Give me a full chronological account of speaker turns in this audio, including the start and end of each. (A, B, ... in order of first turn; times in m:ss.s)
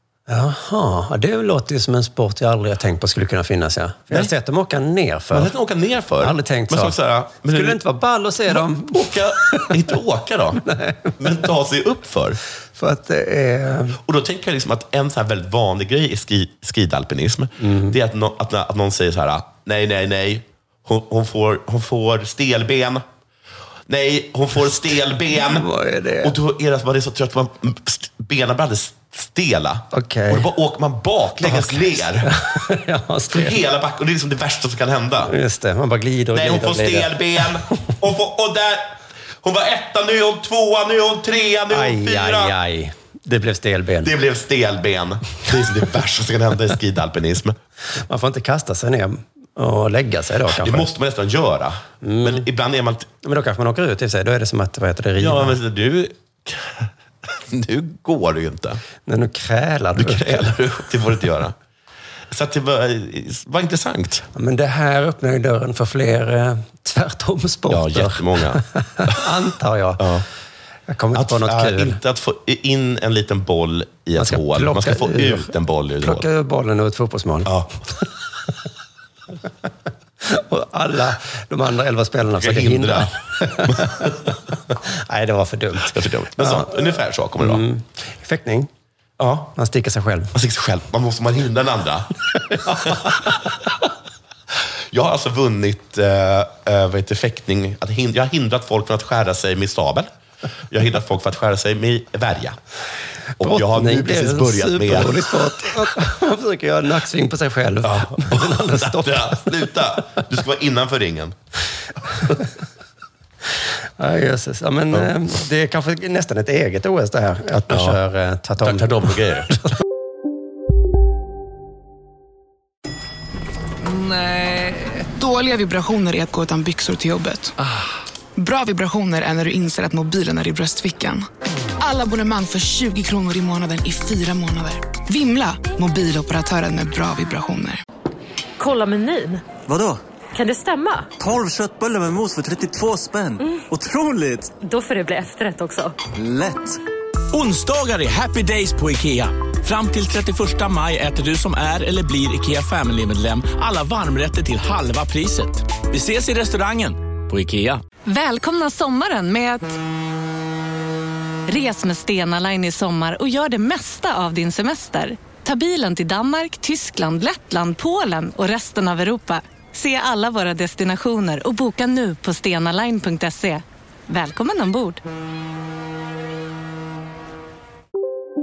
0:00.3-0:05.5 A
0:05.3-0:07.8 B
0:06.2-0:09.7 A
0:08.5-0:10.6 B
0:10.6-0:11.2 A
0:11.2-0:12.4 B
0:12.8-0:14.0 A
0:14.0-0:23.0 B
0:17.6-0:18.0 A
0:23.9-0:25.7 B
0:25.3-0:26.4 A
0:26.2-0:32.4 B
0:29.9-0:30.5 A
0:31.4-0:33.6 A
0:33.3-0:35.3 B
0:35.2-0:37.4 A
0:36.3-0:42.6 B
0:41.7-0:44.1 A
0:44.0-0:47.6 B
0:48.0-0:50.9 A
0:50.5-0:53.1 B
0:52.0-0:52.4 A
0:53.2-0:55.6 A
0:55.2-0:58.8 B
0:59.1-1:00.5 A
0:59.9-1:01.6 B
1:02.3-1:04.2 B
1:04.3-1:10.1 A
1:07.7-1:09.2 B
1:10.0-1:10.2 B
1:10.9-1:12.0 A
1:11.1-1:16.3 B
1:14.2-1:17.5 A
1:17.4-1:17.7 B
1:20.2-1:28.7 A
1:22.4-1:24.1 B
1:25.9-1:27.6 B
1:29.2-1:29.5 B
1:29.5-1:30.3 A
1:30.3-1:33.4 B
1:34.9-1:40.1 B
1:40.7-1:42.6 B
1:43.4-1:45.5 B
1:43.4-1:49.7 A
1:47.8-1:51.4 B
1:54.0-1:59.1 A
1:57.7-1:58.0 B
1:58.6-1:59.6 B
2:05.2-2:07.6 C
2:08.4-2:11.3 C
2:11.8-2:17.8 C
2:18.6-2:19.5 D
2:20.3-2:21.1 D
2:21.3-2:23.1 E
2:23.4-2:23.7 D
2:23.9-2:24.3 E
2:24.6-2:26.0 D
2:27.3-2:37.8 F
2:38.1-2:39.8 G
2:41.5-2:55.0 G